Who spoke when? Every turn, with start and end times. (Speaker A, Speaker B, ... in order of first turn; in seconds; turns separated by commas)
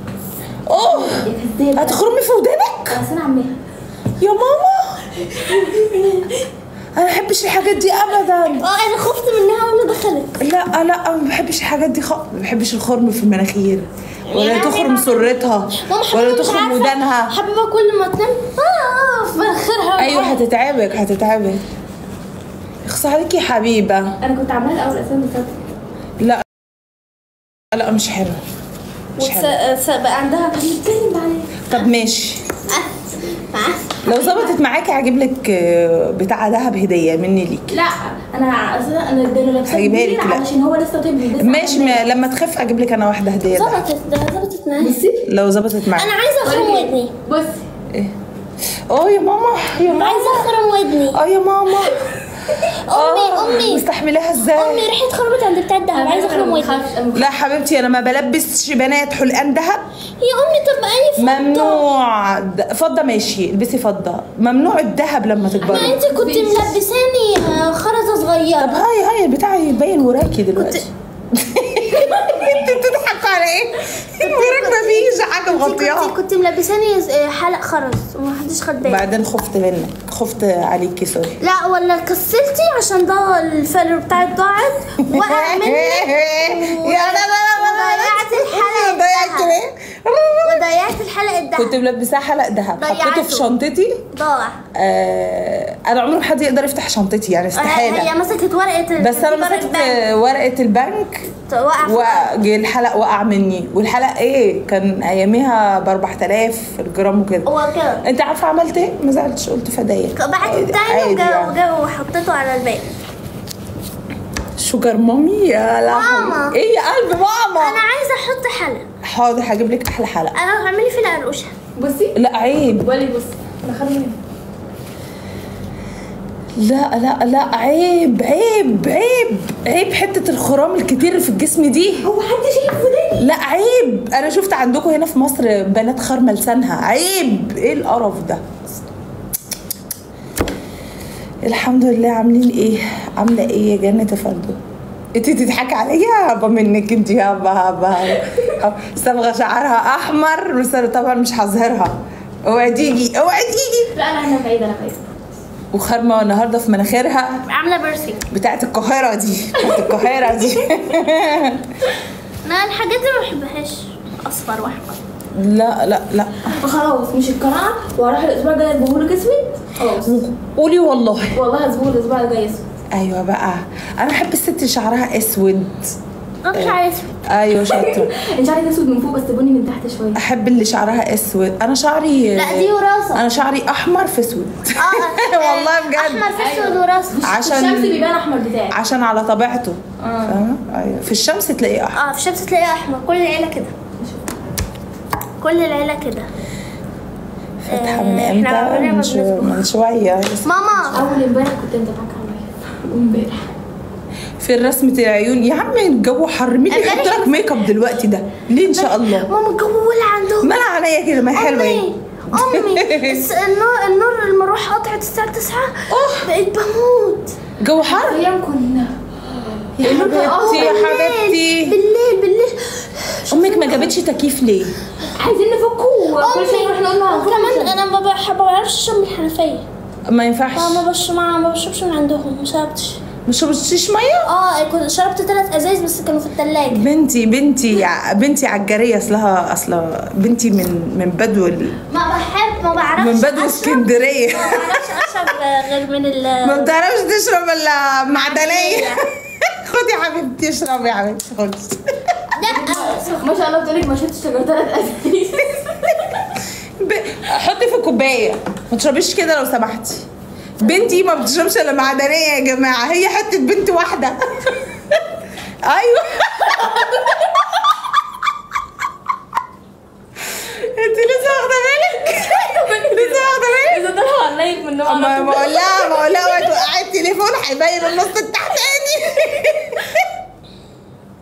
Speaker A: 0.7-3.0, Speaker B: 0.8-2.0, Speaker B: 2.9-3.6, Speaker A: 4.2-5.1, Speaker B: 5.3-6.3, Speaker A: 7.0-8.7, Speaker C: 8.6-10.4, Speaker A: 10.4-17.3, Speaker C: 14.3-20.4, Speaker A: 20.0-21.6, Speaker A: 22.8-24.1, Speaker B: 24.2-25.6, Speaker A: 27.7-28.4, Speaker B: 29.2-31.7, Speaker A: 29.2-29.5, Speaker A: 31.7-32.4, Speaker C: 32.7-34.1, Speaker A: 34.0-37.7, Speaker B: 37.7-42.1, Speaker A: 39.7-40.4, Speaker A: 41.4-43.8, Speaker C: 43.5-45.0, Speaker B: 44.8-45.2, Speaker A: 45.2-46.2, Speaker C: 45.9-47.1, Speaker B: 46.4-47.6, Speaker A: 48.9-50.5, Speaker C: 49.9-51.2, Speaker A: 51.1-52.0, Speaker A: 52.6-54.9, Speaker C: 52.7-53.8, Speaker C: 54.5-56.8, Speaker B: 55.9-57.4, Speaker A: 57.1-59.8, Speaker C: 60.2-61.8, Speaker A: 61.2-66.0, Speaker C: 65.6-68.8, Speaker B: 65.6-66.8, Speaker A: 68.6-76.1, Speaker C: 70.5-70.9, Speaker B: 72.2-72.5, Speaker C: 74.2-79.1, Speaker A: 78.8-81.4, Speaker C: 81.4-89.6, Speaker A: 85.1-90.7, Speaker C: 90.4-91.8, Speaker A: 91.5-94.0, Speaker C: 92.7-93.5, Speaker C: 94.1-94.6, Speaker A: 94.7-98.1, Speaker C: 97.5-100.0, Speaker A: 99.0-107.5, Speaker C: 101.5-102.3, Speaker C: 107.4-108.0, Speaker A: 108.0-111.6, Speaker C: 110.1-112.9, Speaker A: 114.6-117.8, Speaker C: 115.9-116.6, Speaker C: 117.6-118.8, Speaker A: 119.0-120.4, Speaker C: 120.3-121.5, Speaker B: 121.8-122.2, Speaker A: 122.2-122.8, Speaker B: 122.7-124.2, Speaker A: 126.5-132.1, Speaker B: 132.0-133.3, Speaker A: 133.2-138.6, Speaker A: 141.4-144.6, Speaker A: 145.1-153.9, Speaker B: 153.9-155.1, Speaker A: 155.7-157.4, Speaker C: 157.5-158.2, Speaker A: 158.3-161.6, Speaker B: 159.6-160.1, Speaker C: 162.4-165.0, Speaker A: 165.3-166.5, Speaker B: 166.5-170.2, Speaker A: 170.0-171.4, Speaker B: 171.3-172.6, Speaker A: 172.9-175.9, Speaker C: 176.4-177.2, Speaker A: 176.5-178.1, Speaker B: 177.6-180.2, Speaker A: 180.1-186.3, Speaker C: 182.3-183.2, Speaker C: 184.7-187.2, Speaker B: 186.3-188.8, Speaker A: 187.2-188.0, Speaker A: 188.7-192.0, Speaker B: 190.0-190.4, Speaker C: 191.9-193.7, Speaker B: 194.0-194.3, Speaker C: 195.4-196.3, Speaker A: 197.6-200.9, Speaker C: 197.7-199.7, Speaker C: 200.4-201.0, Speaker B: 200.9-203.6, Speaker A: 204.4-209.3, Speaker C: 206.7-207.4, Speaker C: 208.7-210.6, Speaker A: 210.4-213.2, Speaker C: 211.3-217.3, Speaker A: 215.9-216.3, Speaker A: 217.6-218.2, Speaker B: 217.8-220.8, Speaker A: 219.8-221.8, Speaker C: 219.8-223.9, Speaker A: 223.3-224.7, Speaker B: 225.1-227.8, Speaker C: 226.2-229.7, Speaker A: 230.1-230.8, Speaker C: 230.5-233.0, Speaker A: 233.2-234.3, Speaker C: 234.2-236.8, Speaker A: 236.7-241.8, Speaker C: 241.9-246.8, Speaker A: 243.0-244.9, Speaker A: 246.4-251.8, Speaker C: 248.2-249.0, Speaker C: 252.3-253.2, Speaker B: 252.4-256.3, Speaker A: 256.8-260.0, Speaker A: 260.6-264.6, Speaker A: 265.6-266.9, Speaker B: 266.5-267.2, Speaker A: 270.2-273.9, Speaker B: 272.0-276.4, Speaker A: 274.8-280.0